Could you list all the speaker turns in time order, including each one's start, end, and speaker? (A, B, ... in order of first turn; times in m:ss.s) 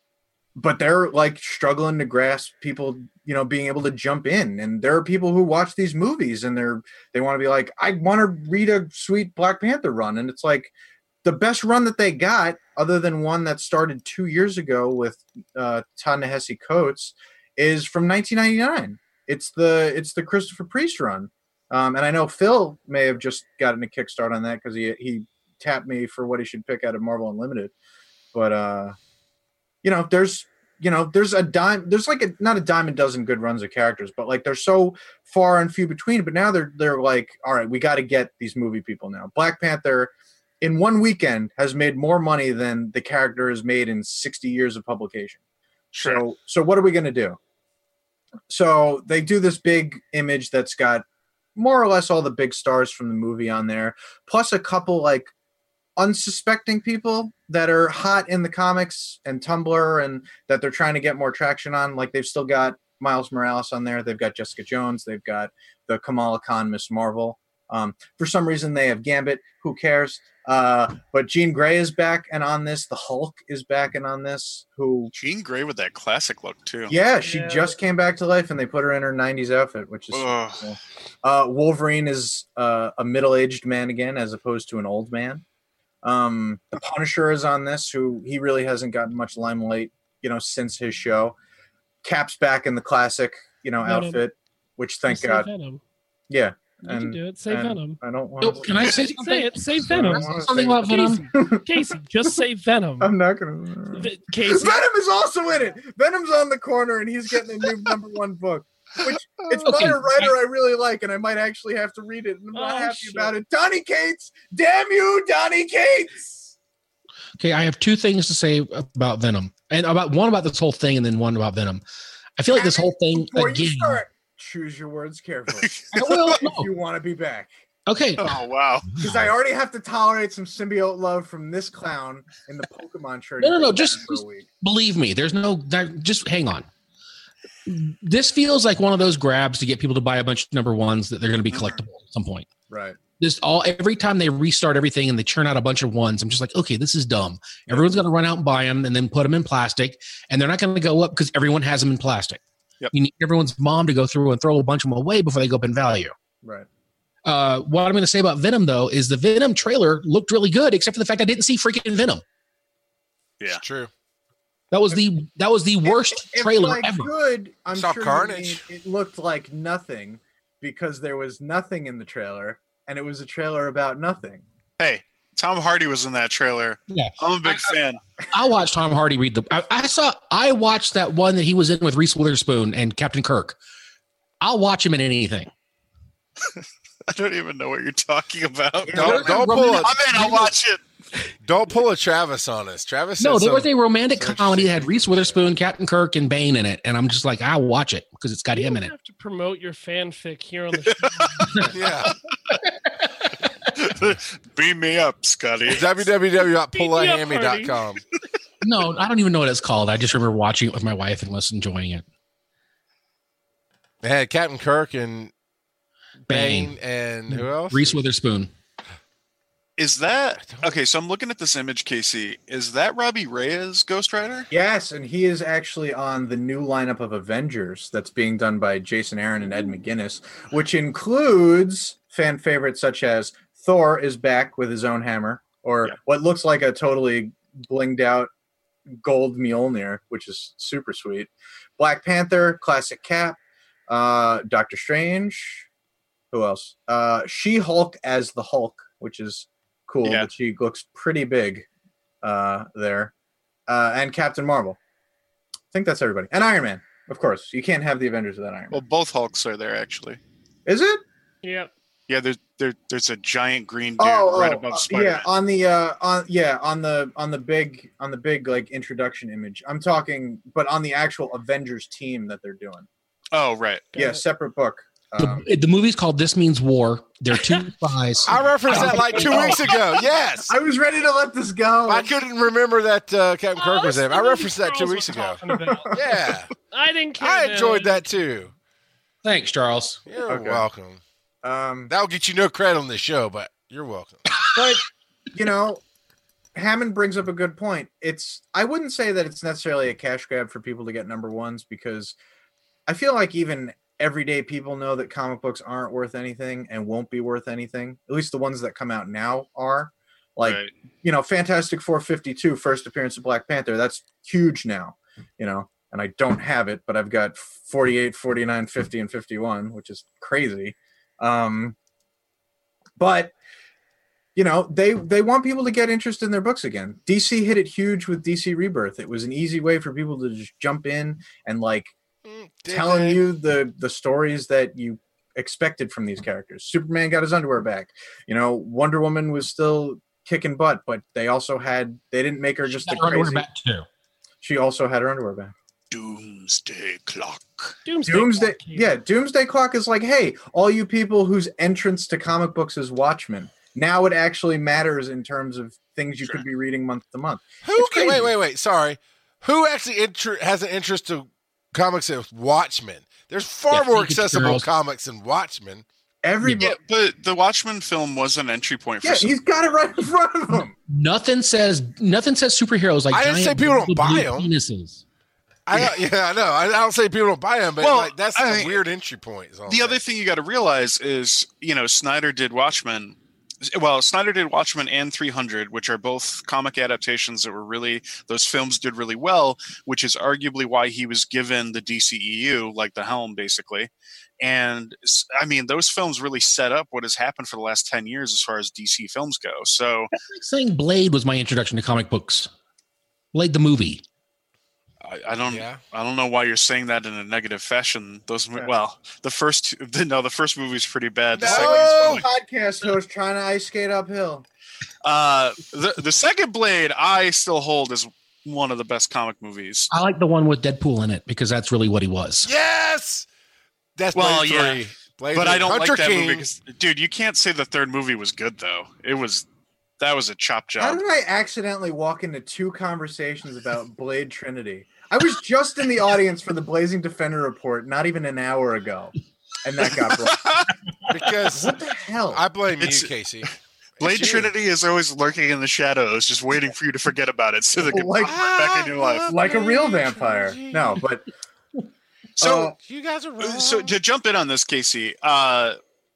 0:00.6-0:10.7 A
0:11.2-0:27.7 A
0:28.3-0:29.0 A
0:29.8-0:45.4 A
0:45.9-0:46.2 B
0:46.0-0:47.4 A
0:48.5-0:51.0 A
0:51.6-0:55.3 A
0:56.0-1:15.1 A
1:15.1-1:17.0 B
1:16.9-1:25.4 A
1:17.2-1:17.8 C
1:20.1-1:20.8 B
1:26.0-1:31.4 A
1:32.0-1:35.5 A
1:33.8-1:34.2 C
1:35.1-1:35.8 C
1:36.3-1:39.0 A
1:36.8-1:38.0 C
1:38.4-1:41.3 D
1:39.0-1:43.1 C
1:39.9-1:40.8 A
1:41.3-1:41.8 A
1:43.0-1:56.5 A
1:43.9-1:44.9 C
1:49.5-1:50.2 D
1:52.5-1:53.4 C
1:57.4-2:01.8 D
2:02.4-2:04.0 D
2:02.5-2:07.6 A
2:05.6-2:06.4 B
2:05.9-2:06.7 D
2:07.9-2:08.4 D
2:08.2-2:09.0 B
2:08.9-2:09.3 D
2:09.0-2:14.5 A
2:13.4-2:16.7 D
2:17.7-2:22.5 D
2:21.5-2:21.8 B
2:22.7-2:23.0 A
2:23.2-2:32.4 D
2:32.9-2:36.1 D
2:37.3-2:42.2 D
2:43.6-2:43.9 E
2:44.7-2:47.1 D
2:45.8-2:54.4 A
2:47.7-2:48.6 E
2:54.8-2:58.0 B
2:56.9-2:57.8 D
2:58.3-3:03.6 D
3:04.4-3:05.5 D
3:06.4-3:10.8 B
3:08.8-3:09.2 A
3:08.9-3:10.1 E
3:09.0-3:10.6 D
3:11.4-3:13.7 E
3:13.2-3:18.9 D
3:14.2-3:14.6 A
3:14.6-3:15.4 E
3:18.5-3:21.8 C
3:20.9-3:21.5 B
3:21.7-3:22.2 E
3:22.5-3:23.1 D
3:23.8-3:26.1 B
3:25.7-3:28.0 E
3:26.7-3:27.8 C
3:28.6-3:32.0 D
3:34.0-3:35.3 E
3:36.3-3:36.8 D
3:36.3-3:38.0 E
3:37.3-3:38.5 D
3:39.8-3:44.5 B
3:40.4-3:40.7 E
3:44.5-3:58.3 A
3:59.0-4:05.7 A
4:06.3-4:11.7 A
4:10.0-4:10.3 B
4:12.2-4:13.1 A
4:13.7-4:14.8 A
4:15.7-4:18.8 A
4:18.7-4:20.2 B
4:20.7-4:21.0 A
4:21.4-4:21.7 C
4:22.1-4:25.3 B
4:24.0-4:32.9 A
4:33.3-4:33.9 B
4:33.9-4:34.2 C
4:34.0-4:35.5 A
4:35.2-4:39.6 D
4:38.2-4:40.5 E
4:38.7-4:39.5 A
4:38.8-4:39.6 C
4:40.5-4:42.1 A
4:41.9-4:46.5 E
4:43.6-4:46.0 C
4:45.5-4:46.1 A
4:46.7-4:48.0 C
4:47.2-4:48.5 E
4:49.2-4:50.0 D
4:50.1-4:51.0 E
4:50.3-4:50.7 A
4:51.4-4:51.9 A
4:51.9-4:54.3 E
4:54.3-4:54.6 D
4:54.6-4:55.8 A
4:56.6-5:02.2 A
5:02.9-5:21.8 A
5:10.4-5:10.7 B
5:23.0-5:23.4 A
5:24.4-5:31.9 A
5:32.2-5:33.2 E
5:32.7-5:43.5 A
5:42.7-5:43.9 D
5:44.4-5:45.5 A
5:45.9-5:47.8 B
5:47.9-5:49.0 C
5:48.1-5:58.2 A
5:57.6-6:05.8 E
6:03.7-6:04.7 D
6:06.2-6:06.8 A
6:06.6-6:09.3 B
6:09.0-6:10.7 A
6:10.9-6:15.0 D
6:13.1-6:14.5 E
6:15.7-6:20.0 E
6:17.8-6:18.8 B
6:19.7-6:33.9 B
6:34.4-6:40.1 B
6:40.1-6:42.5 D
6:43.3-6:44.0 D
6:45.0-6:52.3 B
6:45.4-6:45.8 E
6:51.3-6:52.2 E
6:51.4-6:54.4 A
6:55.0-6:59.9 B
6:59.9-7:02.5 D
7:02.4-7:03.3 E
7:04.0-7:06.5 E
7:04.2-7:04.8 B
7:05.3-7:09.5 B
7:10.0-7:11.0 B
7:10.8-7:20.5 A
7:19.9-7:21.4 B
7:21.1-7:21.8 E
7:21.5-7:22.4 A
7:22.3-7:24.5 E
7:22.8-7:29.3 B
7:27.8-7:28.4 A
7:28.2-7:31.0 E
7:29.3-7:31.3 A
7:32.4-7:32.7 B
7:32.4-7:32.8 A
7:32.5-7:34.0 E
7:33.4-7:35.8 B